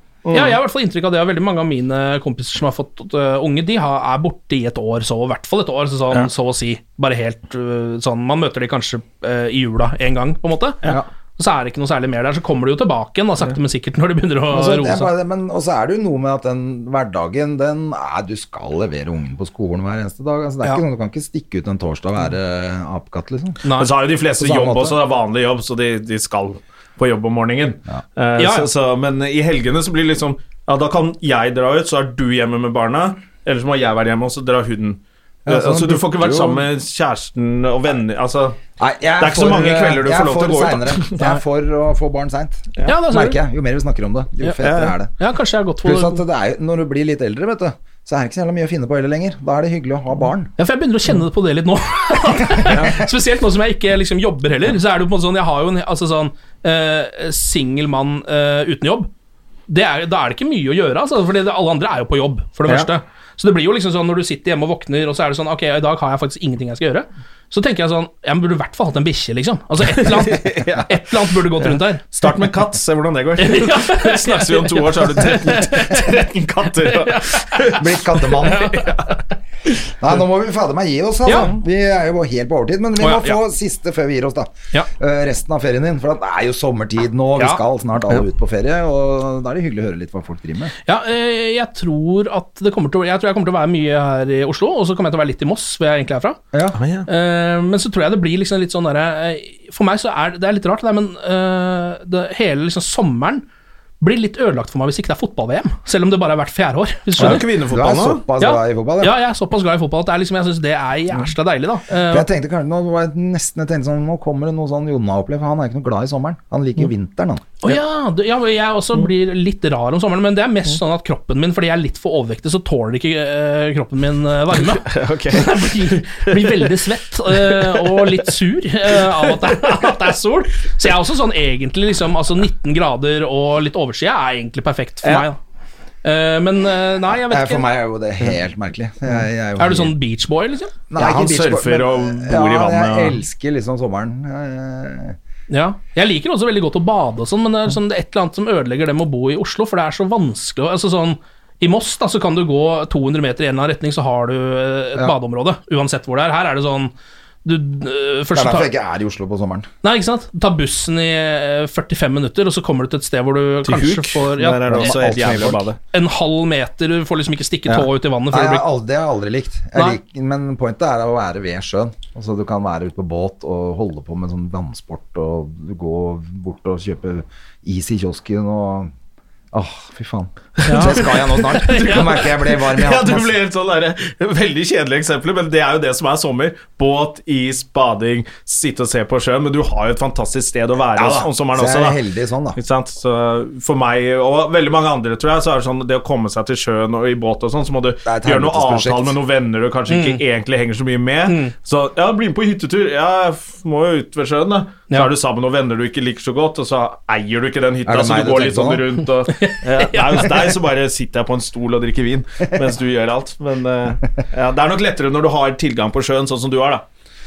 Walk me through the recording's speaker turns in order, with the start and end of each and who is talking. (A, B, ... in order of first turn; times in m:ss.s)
0:00.2-0:00.6 A
0:00.3-0:15.1 B
0:14.5-0:23.6 C
0:23.6-0:23.9 B
0:23.7-0:38.6 A
0:24.3-0:25.0 C
0:28.4-0:28.7 B
0:35.4-0:36.6 C
0:38.8-0:45.1 C
0:39.2-0:41.2 A
0:42.8-0:43.4 B
0:44.6-0:44.9 A
0:45.2-0:46.2 B
0:45.8-0:50.5 C
0:50.6-0:59.1 B
0:52.7-0:53.0 C
0:59.7-1:12.3 B
1:09.8-1:11.0 A
1:11.6-1:17.8 A
1:13.4-1:19.2 B
1:17.7-1:18.8 C
1:18.5-1:19.0 A
1:19.9-1:30.7 C
1:21.2-1:21.5 B
1:23.0-1:23.4 B
1:27.4-1:27.6 B
1:30.8-1:36.4 B
1:36.5-1:36.8 C
1:36.7-1:37.1 A
1:37.1-1:43.4 B
1:44.0-1:47.5 B
1:47.2-1:48.2 A
1:47.2-1:49.2 C
1:48.4-1:52.3 B
1:52.1-1:57.5 C
1:57.6-2:15.4 B
2:04.5-2:06.7 A
2:07.3-2:08.2 A
2:08.9-2:10.0 A
2:15.0-2:15.3 A
2:16.0-2:17.7 B
2:17.1-2:19.9 C
2:19.6-2:20.7 B
2:20.9-2:25.2 C
2:21.0-2:23.2 A
2:25.5-2:36.9 B
2:37.4-2:38.7 B
2:38.3-2:39.7 C
2:39.8-2:45.2 B
2:43.6-2:45.8 A
2:44.7-2:45.7 C
2:45.8-2:48.6 B
2:47.7-2:58.9 C
2:59.5-3:03.3 C
3:00.6-3:02.6 B
3:02.7-3:12.0 A
3:10.9-3:12.6 C
3:12.6-3:36.8 A
3:18.0-3:19.2 C
3:19.9-3:20.2 B
3:21.3-3:21.5 B
3:27.8-3:28.9 C
3:29.3-3:30.5 B